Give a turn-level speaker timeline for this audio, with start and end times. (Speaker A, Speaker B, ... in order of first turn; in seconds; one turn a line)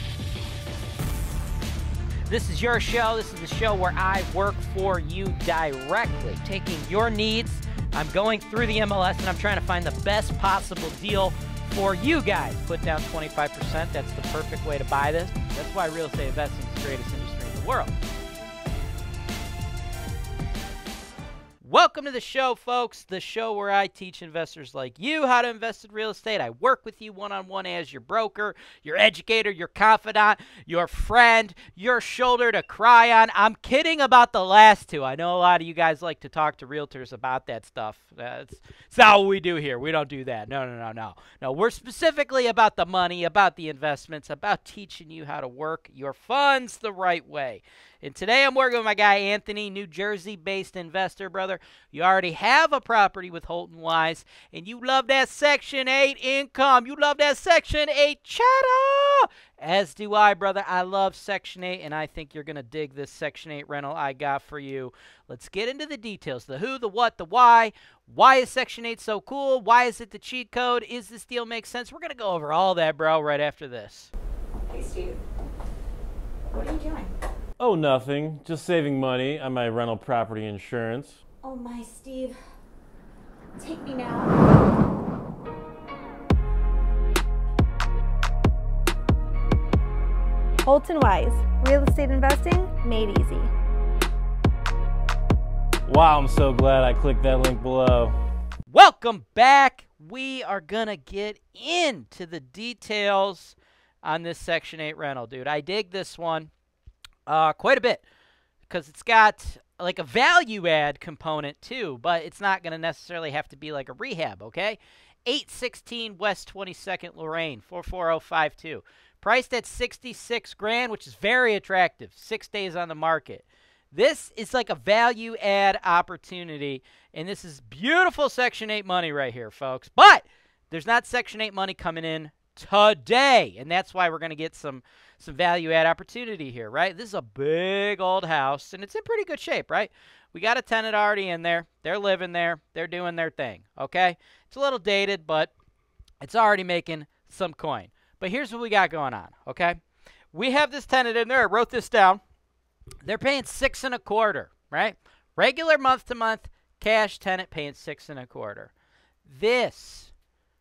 Speaker A: 2.3-18.0
Speaker A: 21.6-74.1
Speaker B: 74.7-75.2
Speaker B: 76.5-77.1
Speaker C: 77.6-81.2
Speaker B: 81.4-82.4
Speaker B: 83.6-84.3
Speaker D: 90.7-93.5
Speaker C: 95.9-98.1
Speaker A: 98.7-106.5
Speaker A: 107.3-108.0
Speaker A: 108.7-145.5
Speaker A: 146.2-149.8
Speaker A: 150.3-152.2
Speaker A: 153.0-158.7
Speaker A: 159.2-160.1